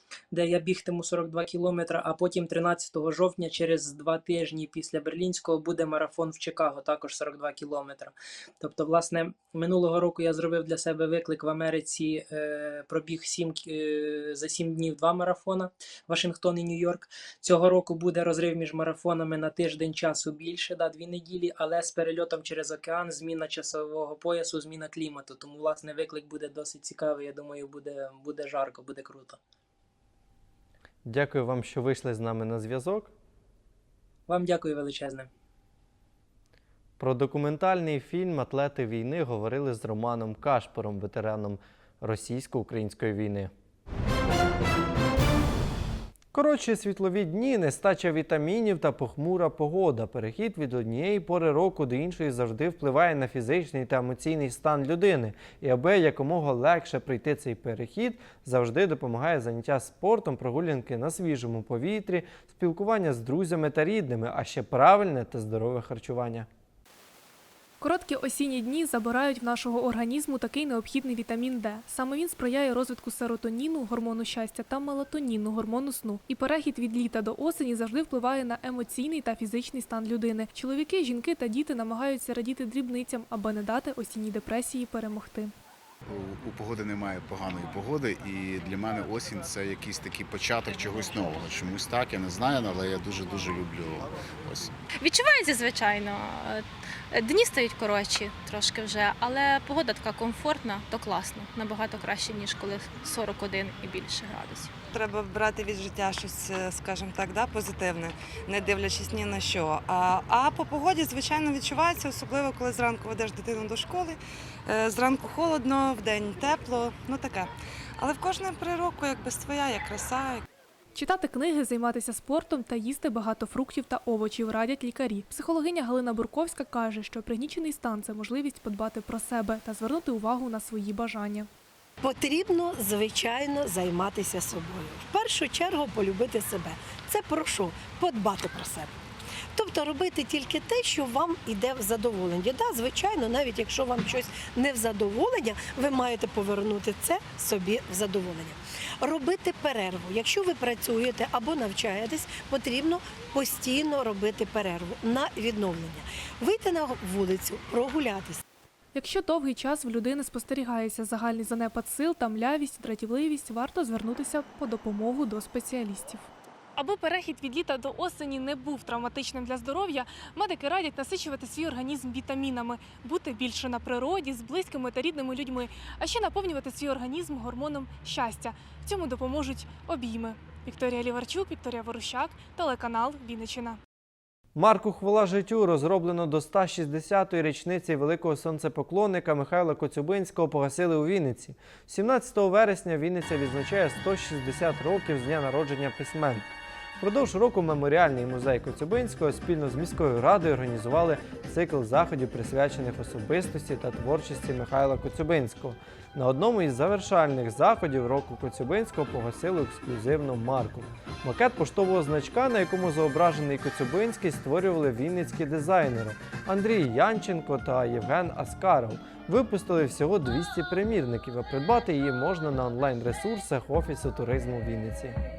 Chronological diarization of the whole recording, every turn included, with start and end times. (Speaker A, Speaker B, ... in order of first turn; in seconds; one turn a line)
Speaker A: 0.3-29.4
Speaker B: 31.1-33.1
Speaker A: 34.3-35.3
Speaker B: 37.0-43.5
Speaker B: 46.3-66.5
Speaker C: 67.8-85.5
Speaker D: 86.0-94.8
Speaker E: 95.0-104.7
Speaker F: 104.9-120.5
Speaker C: 120.9-131.5
Speaker G: 132.0-138.9
Speaker G: 139.6-158.4
Speaker C: 158.9-183.8
Speaker B: 184.6-225.2